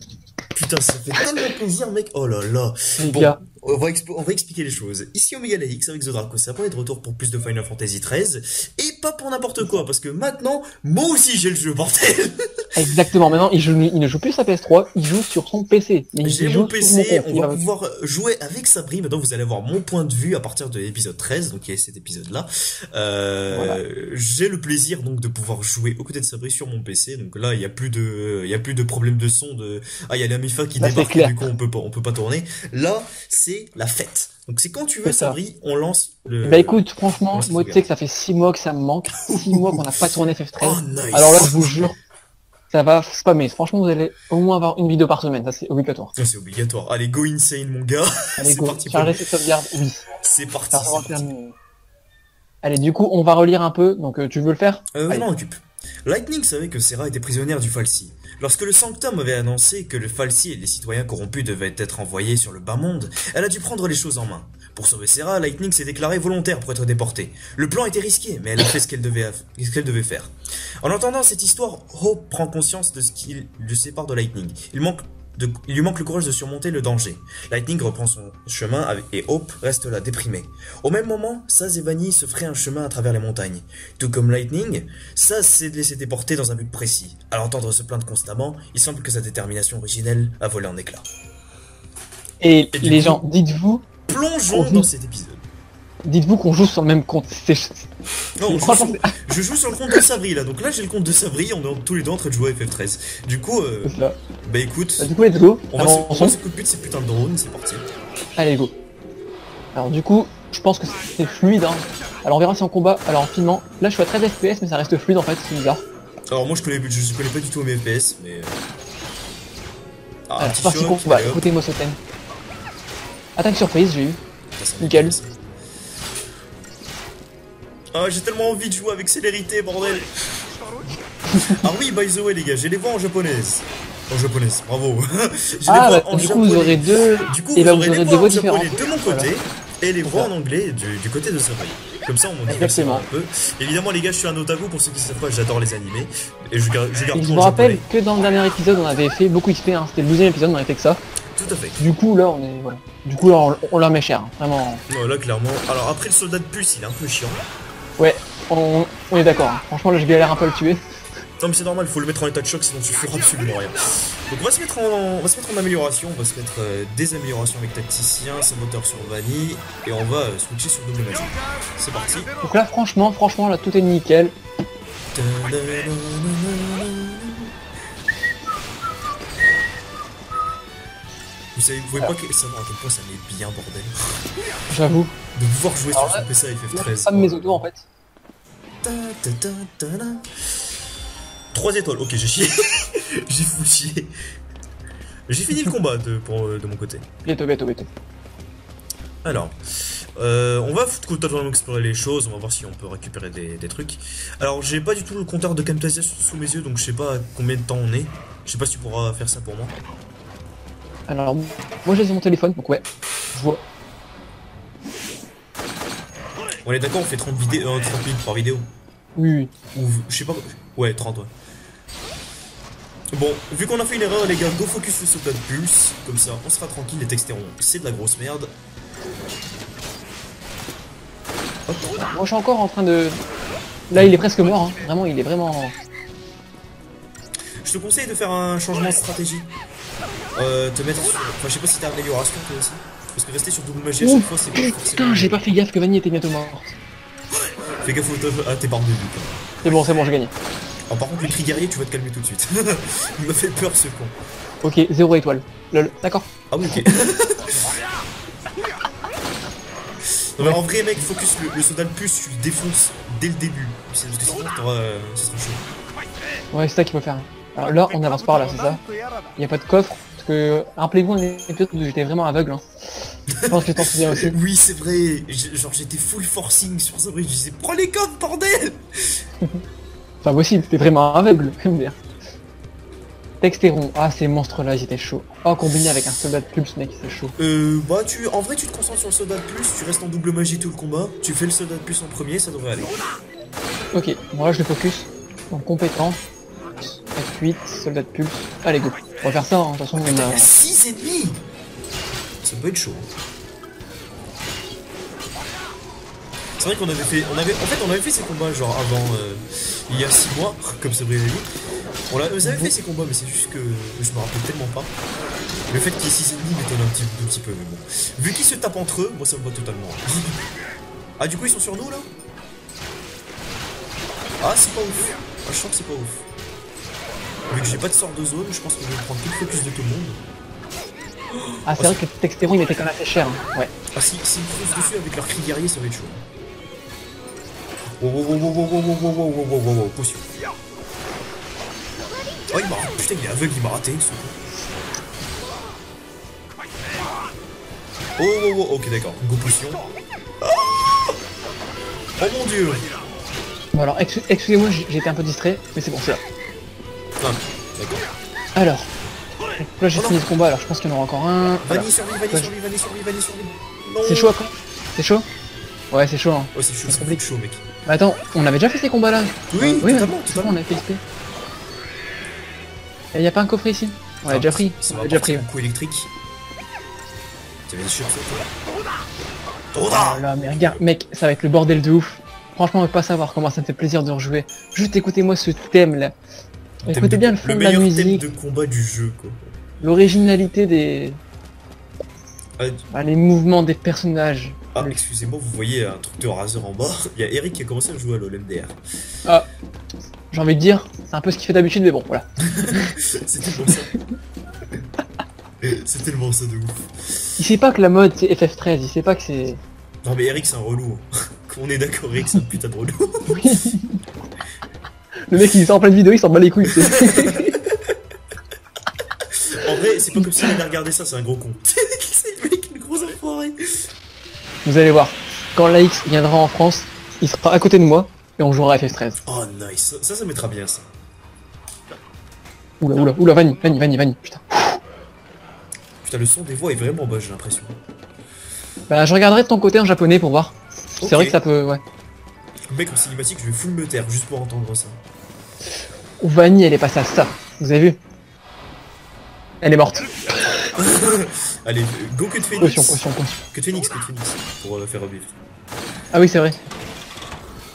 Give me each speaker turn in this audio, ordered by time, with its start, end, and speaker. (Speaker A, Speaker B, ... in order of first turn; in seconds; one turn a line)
Speaker A: 0.5-12.7
Speaker B: 3.0-3.4
Speaker B: 12.8-17.6
Speaker A: 16.2-37.8
Speaker B: 23.5-23.8
Speaker B: 30.8-31.4
Speaker B: 35.0-35.4
Speaker B: 36.4-42.0
Speaker A: 39.2-39.9
Speaker A: 40.6-42.0
Speaker B: 42.7-46.1
Speaker A: 46.2-49.2
Speaker B: 48.4-50.0
Speaker A: 50.2-51.3
Speaker B: 50.7-51.6
Speaker B: 52.6-55.3
Speaker A: 54.9-91.1
Speaker B: 92.4-93.9
Speaker A: 92.7-93.2
Speaker A: 94.1-95.4
Speaker B: 94.5-94.9
Speaker B: 96.0-99.1
Speaker A: 98.4-105.1
Speaker B: 103.8-104.2
Speaker B: 105.0-106.4
Speaker A: 105.7-107.9
Speaker B: 108.4-108.7
Speaker B: 109.7-115.8
Speaker A: 116.3-118.6
Speaker A: 120.3-121.4
Speaker B: 120.4-122.0
Speaker B: 123.4-124.2
Speaker A: 124.5-125.4
Speaker B: 124.8-125.2
Speaker A: 127.9-130.2
Speaker B: 131.3-131.6
Speaker A: 131.4-147.8
Speaker B: 135.7-139.3
Speaker B: 140.0-140.3
Speaker B: 142.5-143.1
Speaker B: 147.1-151.0
Speaker A: 151.3-151.8
Speaker B: 151.8-154.8
Speaker A: 154.9-157.4
Speaker B: 158.0-160.8
Speaker A: 161.4-172.3
Speaker B: 172.4-174.3
Speaker A: 175.1-177.5
Speaker A: 181.6-183.9
Speaker B: 184.7-185.1
Speaker A: 185.3-187.7
Speaker B: 185.9-187.8
Speaker A: 188.8-190.3
Speaker A: 191.5-194.1
Speaker A: 195.3-197.1
Speaker B: 197.2-197.9
Speaker A: 199.2-209.8
Speaker B: 211.1-213.6
Speaker A: 216.6-218.7
Speaker B: 219.2-219.5
Speaker A: 219.7-221.3
Speaker A: 223.1-228.5
Speaker A: 231.7-232.0
Speaker B: 232.0-233.2
Speaker B: 233.9-235.8
Speaker A: 233.9-234.3
Speaker A: 237.6-239.5
Speaker A: 240.3-245.4
Speaker B: 244.0-246.7
Speaker A: 247.8-249.8
Speaker B: 249.6-250.3
Speaker A: 250.9-254.2
Speaker B: 254.6-257.0
Speaker A: 256.5-257.7
Speaker A: 260.1-265.7
Speaker B: 266.5-268.8
Speaker B: 269.4-274.4
Speaker A: 273.3-279.2
Speaker B: 280.2-282.0
Speaker B: 283.4-287.4
Speaker A: 287.4-292.9
Speaker B: 293.9-296.2
Speaker B: 296.8-300.5
Speaker A: 300.0-301.4
Speaker A: 302.4-303.1
Speaker A: 306.6-311.5
Speaker A: 312.1-314.9
Speaker B: 312.4-312.7
Speaker A: 315.7-320.4
Speaker A: 321.2-322.1
Speaker A: 324.4-326.3
Speaker A: 327.5-330.2
Speaker A: 331.3-332.0
Speaker B: 331.7-333.7
Speaker A: 333.9-336.2
Speaker A: 338.0-340.4
Speaker A: 342.5-344.4
Speaker A: 348.2-349.9
Speaker A: 350.4-351.2
Speaker A: 352.2-352.9
Speaker B: 353.7-356.2
Speaker A: 357.2-358.1
Speaker B: 358.6-358.9
Speaker B: 359.6-362.5
Speaker A: 359.9-360.2
Speaker A: 361.6-364.3
Speaker B: 364.0-365.3
Speaker B: 365.9-367.3
Speaker A: 366.5-367.6
Speaker B: 367.9-371.0
Speaker A: 369.5-370.6
Speaker B: 373.1-375.5
Speaker A: 374.3-376.1
Speaker A: 377.7-378.5
Speaker A: 379.7-380.8
Speaker B: 379.8-386.1
Speaker A: 386.8-389.6
Speaker B: 386.9-388.2
Speaker B: 389.8-391.2
Speaker A: 392.6-392.8
Speaker B: 392.9-395.0
Speaker A: 394.7-398.8
Speaker B: 400.3-402.9
Speaker A: 402.4-403.9
Speaker A: 405.6-407.2
Speaker B: 407.4-409.6
Speaker A: 410.0-413.5
Speaker B: 413.3-414.0
Speaker B: 415.3-417.6
Speaker A: 416.7-417.9
Speaker A: 419.3-423.9
Speaker B: 424.6-429.2
Speaker A: 429.2-430.9
Speaker B: 432.8-434.8
Speaker A: 436.0-437.8
Speaker B: 438.9-441.8
Speaker A: 441.0-441.4
Speaker A: 442.7-445.0
Speaker B: 446.2-448.0
Speaker B: 449.6-450.7
Speaker A: 450.6-455.4
Speaker B: 452.6-453.4
Speaker B: 456.1-456.6